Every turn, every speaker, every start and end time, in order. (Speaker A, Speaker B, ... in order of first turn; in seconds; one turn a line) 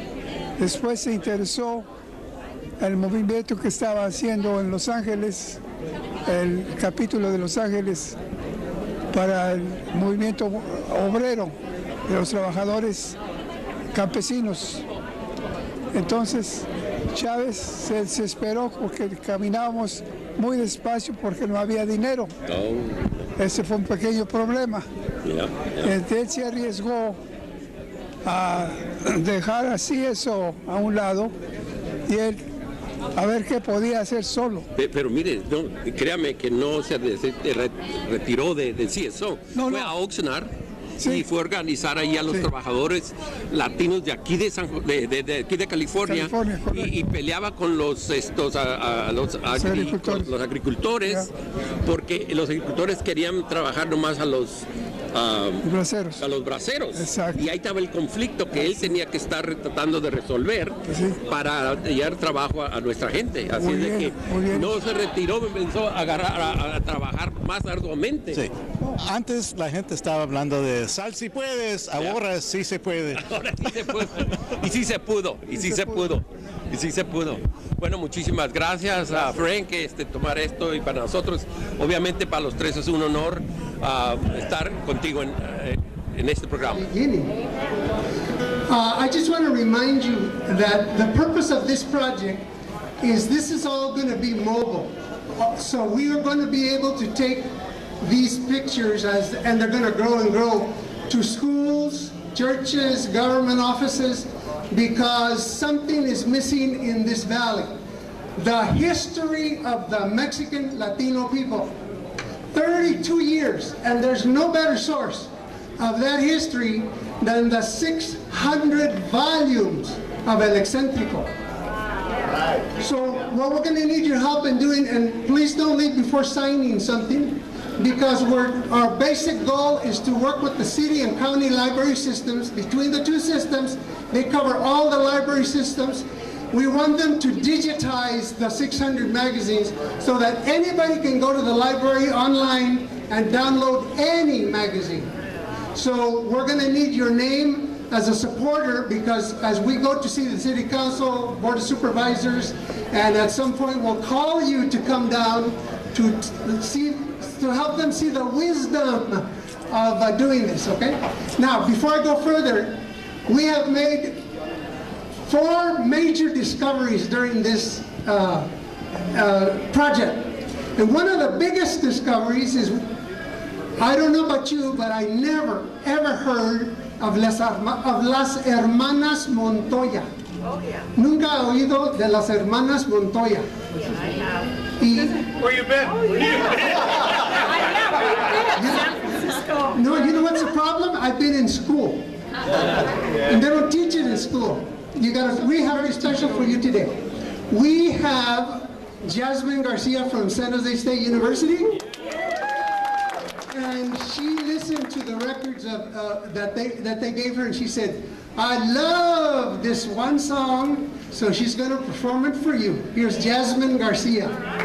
Speaker A: 0.6-1.9
Speaker A: 2.8-5.6
Speaker A: 6.2-8.2
Speaker A: 9.1-11.5
Speaker A: 12.1-13.2
Speaker A: 13.9-14.8
Speaker A: 15.9-22.3
Speaker B: 22.5-23.2
Speaker A: 23.4-24.9
Speaker B: 25.2-25.9
Speaker A: 25.8-27.2
Speaker A: 28.2-31.3
Speaker A: 32.1-32.4
Speaker A: 33.2-34.6
Speaker B: 34.7-40.5
Speaker A: 39.5-39.9
Speaker A: 41.0-41.3
Speaker B: 41.0-51.3
Speaker A: 46.0-47.0
Speaker A: 49.5-50.3
Speaker A: 51.0-51.3
Speaker B: 51.8-68.4
Speaker A: 55.6-56.2
Speaker A: 56.9-57.4
Speaker A: 58.5-58.9
Speaker A: 60.9-61.2
Speaker A: 63.5-64.8
Speaker C: 68.3-73.3
Speaker B: 73.1-86.8
Speaker A: 75.5-76.1
Speaker D: 86.7-87.3
Speaker D: 88.7-92.5
Speaker D: 93.0-97.5
Speaker D: 98.0-107.8
Speaker D: 108.4-111.8
Speaker D: 112.5-121.3
Speaker D: 122.8-145.1
Speaker D: 145.7-164.2
Speaker D: 165.2-168.5
Speaker D: 169.1-172.8
Speaker D: 173.8-180.1
Speaker D: 180.9-183.4
Speaker D: 184.8-185.3
Speaker D: 188.6-189.0
Speaker D: 189.7-192.1
Speaker D: 193.2-197.0
Speaker D: 197.5-201.8
Speaker D: 203.5-214.4